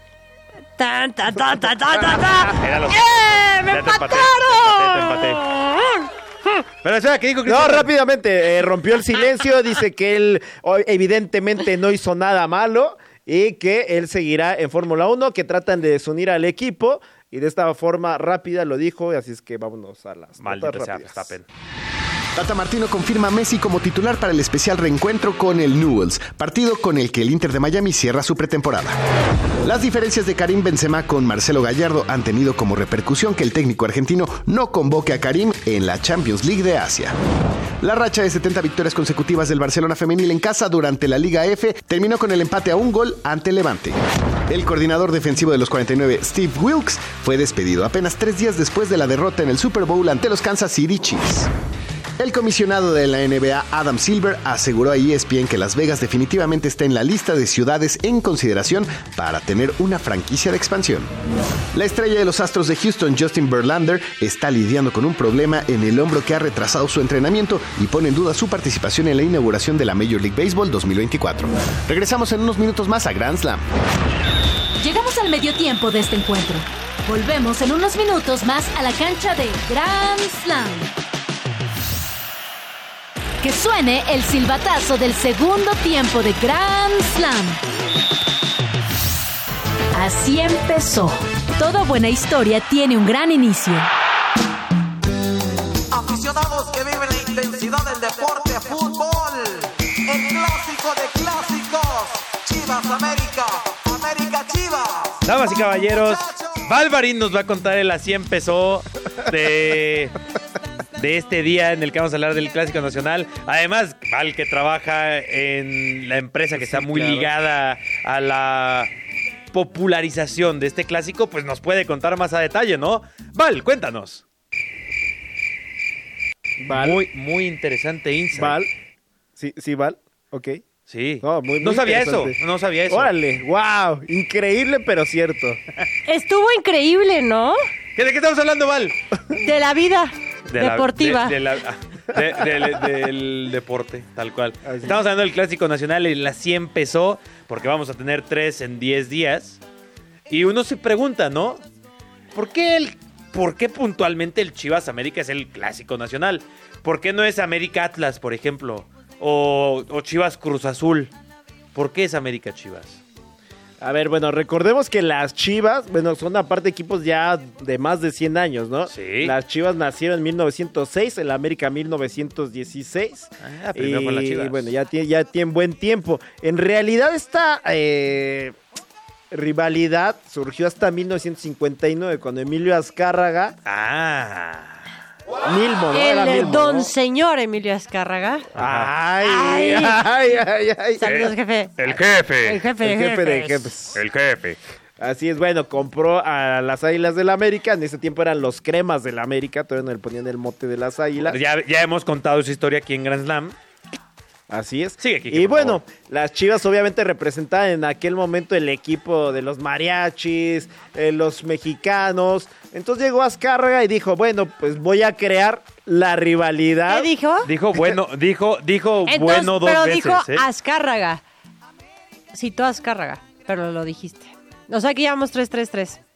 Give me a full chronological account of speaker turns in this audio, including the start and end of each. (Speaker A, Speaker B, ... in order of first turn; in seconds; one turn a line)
Speaker A: 0.8-6.1
Speaker B: 2.5-5.4
Speaker B: 6.8-7.9
Speaker C: 7.4-21.3
Speaker B: 20.4-21.4
Speaker D: 22.4-29.0
Speaker D: 29.6-37.1
Speaker D: 37.8-51.5
Speaker D: 52.2-61.1
Speaker D: 61.7-73.6
Speaker E: 74.8-80.9
Speaker E: 83.4-87.6
Speaker E: 89.9-93.9
Speaker F: 95.9-105.3
Speaker B: 105.2-110.1
Speaker F: 106.0-106.6
Speaker B: 111.0-118.9
Speaker C: 116.5-117.3
Speaker B: 119.5-124.2
Speaker C: 126.6-127.0
Speaker B: 126.7-128.6
Speaker C: 128.3-128.7
Speaker C: 129.4-130.6
Speaker B: 130.9-133.1
Speaker C: 131.2-132.4
Speaker C: 132.9-135.6
Speaker A: 136.1-137.6
Speaker B: 137.9-138.9
Speaker A: 139.3-141.4
Speaker B: 140.5-149.6
Speaker C: 144.6-145.0
Speaker B: 150.3-151.6
Speaker B: 152.3-161.1
Speaker B: 161.7-163.0
Speaker C: 163.8-178.6
Speaker B: 168.9-169.3
Speaker B: 173.4-174.7
Speaker C: 179.3-183.6
Speaker B: 183.6-184.8
Speaker C: 185.4-186.9
Speaker A: 185.9-188.5
Speaker C: 188.5-191.2
Speaker B: 188.6-188.9
Speaker A: 189.2-190.0
Speaker A: 191.0-193.7
Speaker B: 191.0-192.6
Speaker C: 192.8-194.0
Speaker B: 193.9-194.6
Speaker C: 195.0-201.4
Speaker B: 201.2-203.6
Speaker C: 204.5-217.1
Speaker B: 205.0-205.8
Speaker A: 216.9-217.5
Speaker B: 217.4-220.4
Speaker A: 219.1-221.2
Speaker A: 222.3-226.0